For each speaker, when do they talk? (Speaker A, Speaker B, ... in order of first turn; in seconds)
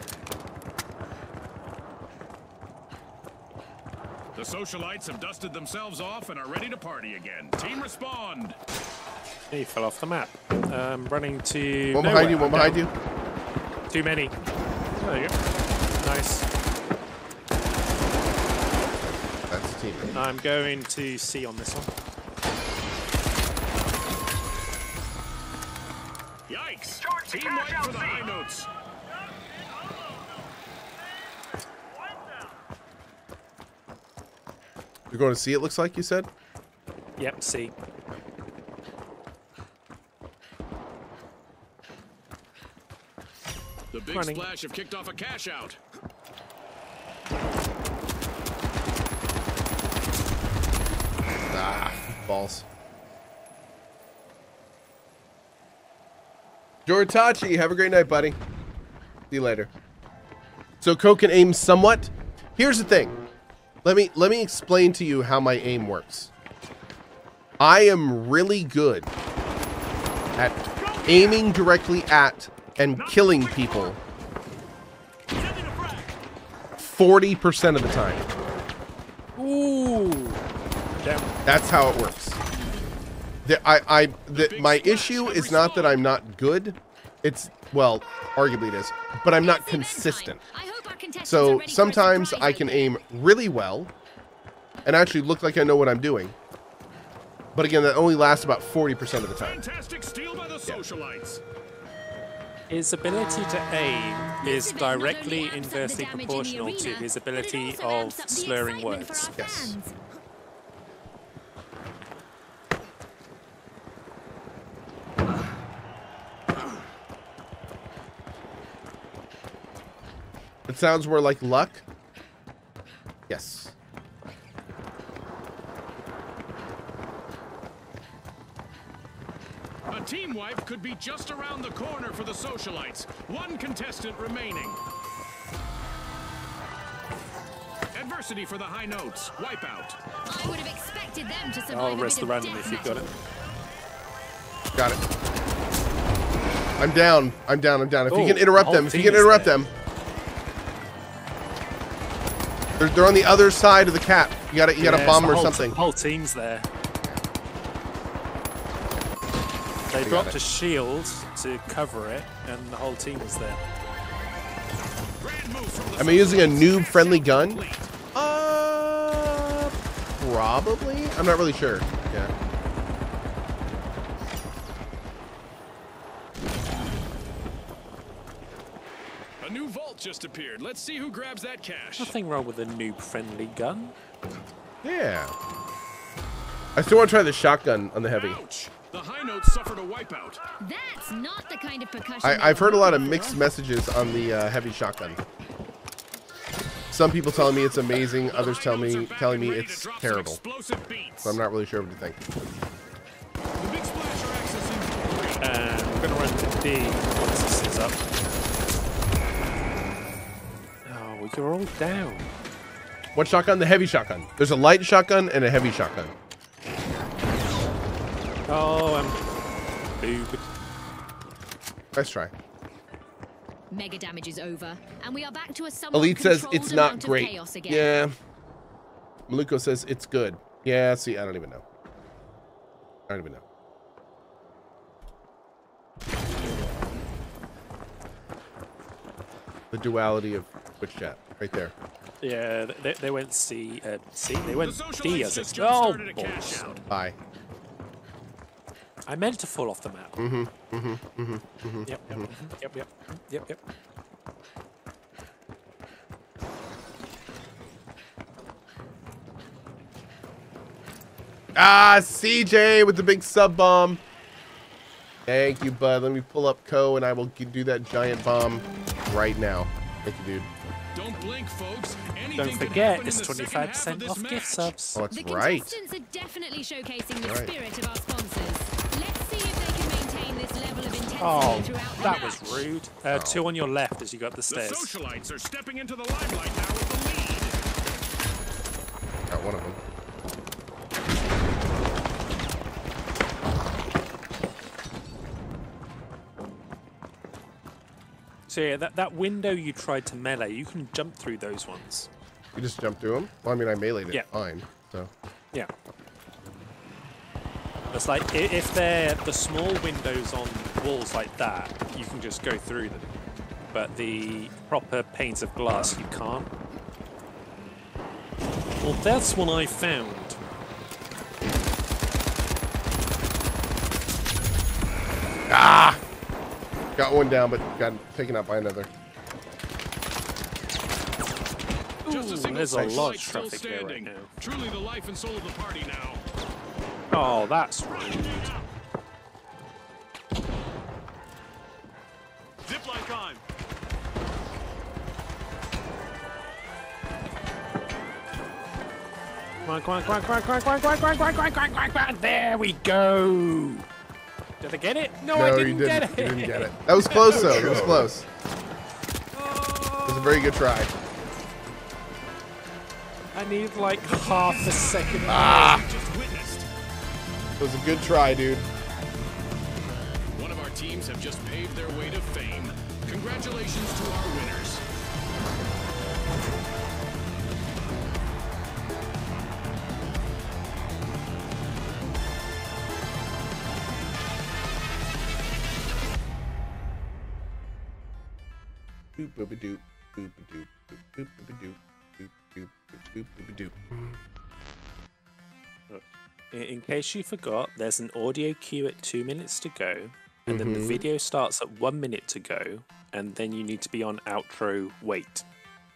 Speaker A: 4.3-8.6, 26.5-28.7, 43.9-45.8, 70.9-71.2, 73.2-73.9, 84.3-86.0, 99.4-101.4, 129.9-134.8, 137.9-140.0, 165.2-167.9, 179.4-182.2, 188.1-190.4, 198.2-201.4, 203.6-205.4, 244.5-246.8, 270.9-274.7, 282.0-282.5, 284.5-287.5, 332.1-336.2, 364.0-366.7, 370.4-374.8
Speaker B: 9.5-12.8, 13.9-14.3, 15.0-15.3, 16.0-16.5, 20.1-21.9, 37.2-37.7, 44.1-44.5, 79.4-80.4, 81.0-81.3, 102.7-109.3, 141.7-143.1, 148.1-149.6, 154.8-156.7, 159.9-163.6, 182.0-183.9, 205.4-208.0, 210.8-212.3, 218.5-219.2, 220.0-220.5, 242.2-246.7, 249.1-250.2, 251.9-253.6, 272.4-275.0, 281.2-284.9, 298.5-302.1, 307.9-313.1, 313.7-316.5, 318.8-320.4, 332.0-334.3, 337.1-338.5, 349.6-353.9, 354.6-358.1, 359.3-360.5, 363.3-365.8, 395.9-405.4
Speaker C: 11.9-12.9, 19.0-20.1, 35.1-36.3, 51.5-52.7, 56.9-58.4, 59.3-59.7, 60.8-63.2, 63.8-66.3, 67.6-69.1, 70.4-74.0, 76.8-78.3, 81.5-82.4, 83.5-90.4, 91.2-93.9, 94.8-96.3, 97.5-99.6, 109.4-109.8, 120.7-121.8, 123.3-123.8, 144.8-145.0, 146.8-149.7, 152.8-155.8, 160.0-160.4, 166.0-172.3, 184.8-185.3, 186.8-188.4, 192.2-195.2, 196.9-200.4, 201.2-202.2, 213.2-216.1, 221.9-222.3, 225.9-228.1, 229.3-231.6, 233.1-233.4, 239.7-241.7, 246.9-247.2, 250.2-252.3, 261.5-264.0, 265.3-270.5, 274.9-275.8, 277.2-277.5, 283.1-283.4, 289.3-289.8, 302.5-305.1, 325.5-326.0, 327.0-328.9, 332.7-333.1, 355.3-358.2, 360.1-360.9, 365.3-365.9, 367.6-368.7, 389.2-394.2, 400.5-401.0
Speaker D: 89.4-92.9, 104.4-110.0, 140.2-143.1, 190.6-193.4, 223.7-227.9, 275.1-282.4